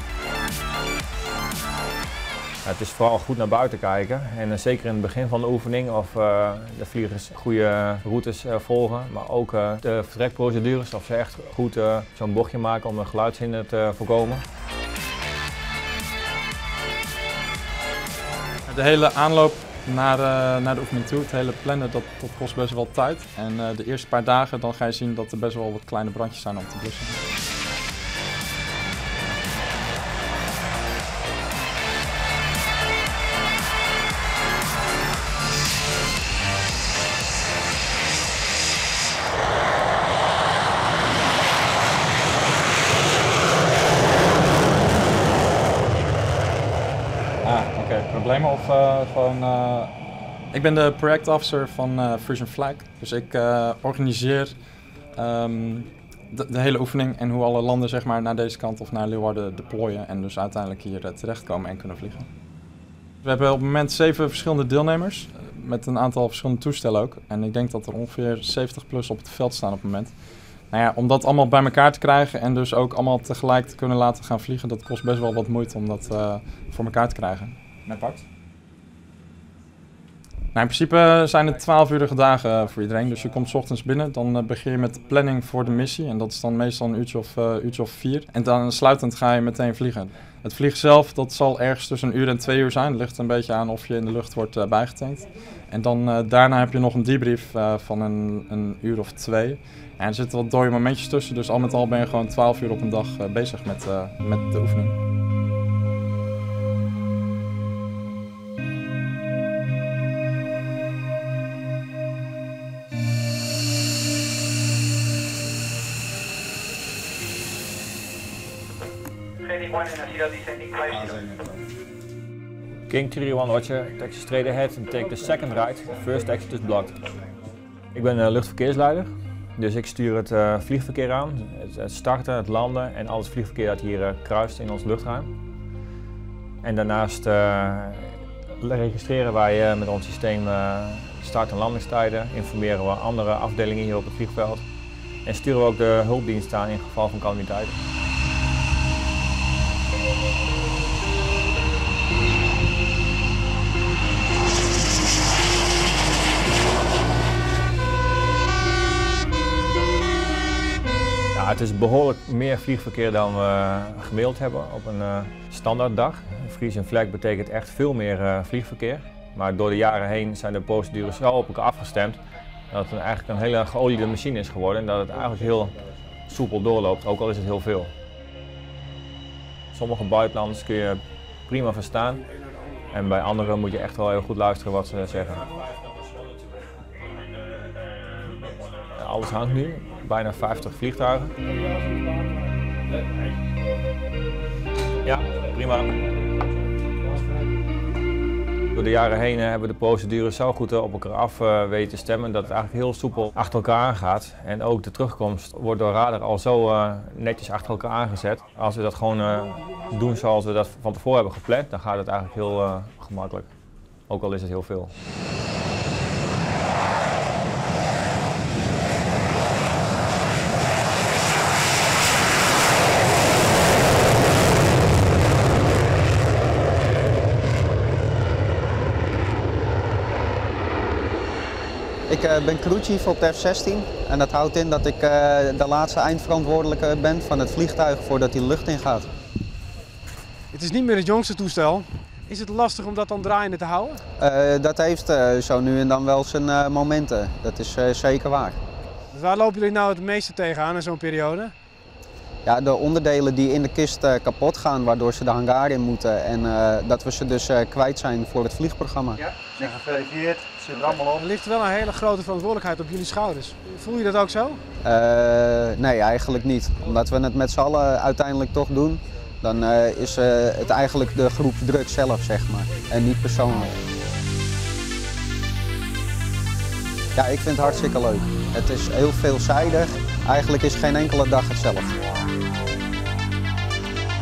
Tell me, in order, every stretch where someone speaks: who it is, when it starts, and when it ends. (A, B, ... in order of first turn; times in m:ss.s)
0:02.6-0:14.4 A
0:18.7-0:27.2 B
0:47.4-0:50.0 B
0:50.5-0:54.6 B
0:55.2-1:02.3 B
1:03.2-1:10.1 B
1:10.7-1:18.2 B
1:20.5-1:45.0 B
1:59.5-2:01.4 C
2:02.9-2:07.0 A
2:07.9-2:15.3 A
2:16.6-2:24.6 A
2:25.2-2:27.8 A
2:41.3-2:52.2 A
2:52.7-2:57.9 A
2:59.7-3:02.2 A
3:02.9-3:05.5 A
3:09.0-3:11.4 A
3:11.7-3:12.4 C
3:15.0-3:16.2 A
3:18.7-3:33.5 A
3:34.1-3:34.9 A
3:52.1-3:59.1 D
4:00.5-4:04.0 C
4:04.2-4:08.6 D
4:09.1-4:11.5 C
4:12.4-4:19.2 D
4:19.3-4:24.6 C
4:24.8-4:33.8 D
4:37.2-4:41.9 D